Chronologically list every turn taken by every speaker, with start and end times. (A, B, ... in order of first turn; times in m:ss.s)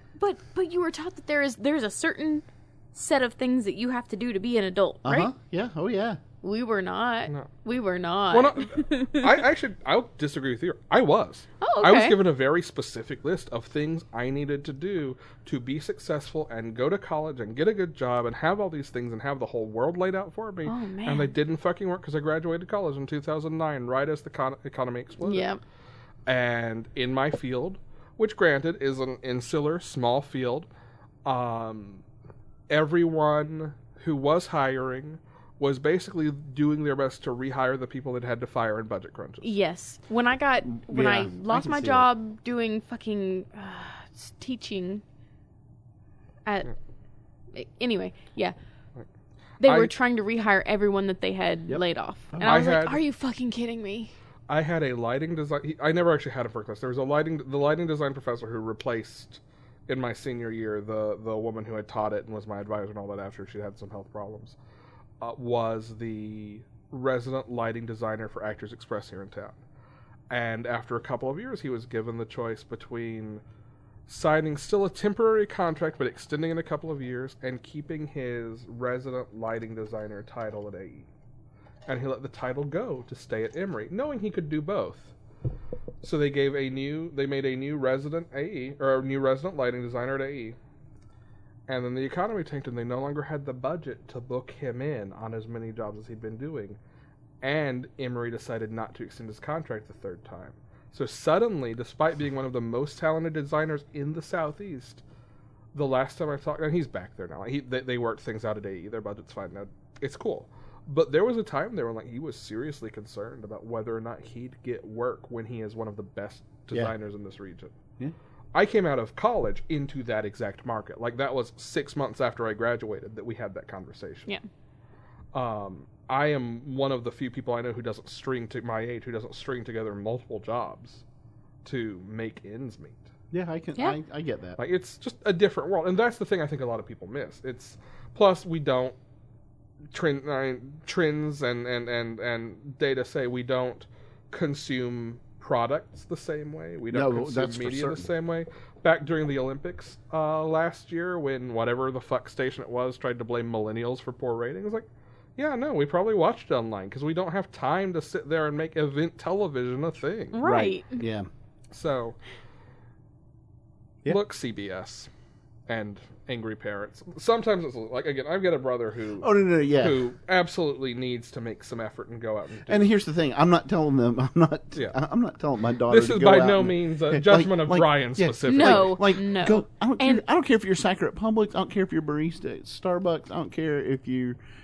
0:00.2-0:05.3 A
0:05.0-0:06.2 B
0:06.4-0:09.4 A
0:08.3-0:25.5 C
0:11.6-0:12.2 A
0:20.6-0:21.3 A
0:25.2-0:25.6 A
0:26.3-0:30.7 C
0:31.2-0:32.0 C
0:32.7-0:39.6 C
0:39.4-0:45.0 A
0:40.6-0:42.1 B
0:46.4-0:46.7 A
0:47.5-0:48.6 A
0:49.6-0:54.1 A
0:49.6-0:49.9 C
0:51.7-0:52.7 B
0:52.4-0:53.0 C
0:54.5-1:04.6 C
1:05.2-1:09.6 C
1:10.3-1:13.4 C
1:14.1-1:21.1 C
1:21.9-1:25.1 C
1:26.0-1:30.6 C
1:31.7-1:36.8 C
1:37.4-1:45.0 C
1:45.7-1:57.8 C
1:58.5-2:04.3 C
2:05.3-2:11.0 C
2:11.6-2:13.1 C
2:13.3-2:14.6 B
2:14.6-2:19.0 C
2:19.9-2:34.9 C
2:26.9-2:28.1 B
2:35.4-2:40.4 C
2:40.3-2:41.0 A
2:40.4-2:41.3 B
2:41.7-2:42.2 C
2:44.1-2:45.1 C
2:45.7-2:52.9 C
2:49.2-2:50.0 B
2:52.7-3:04.4 B
2:55.9-2:59.0 C
2:58.4-3:00.2 A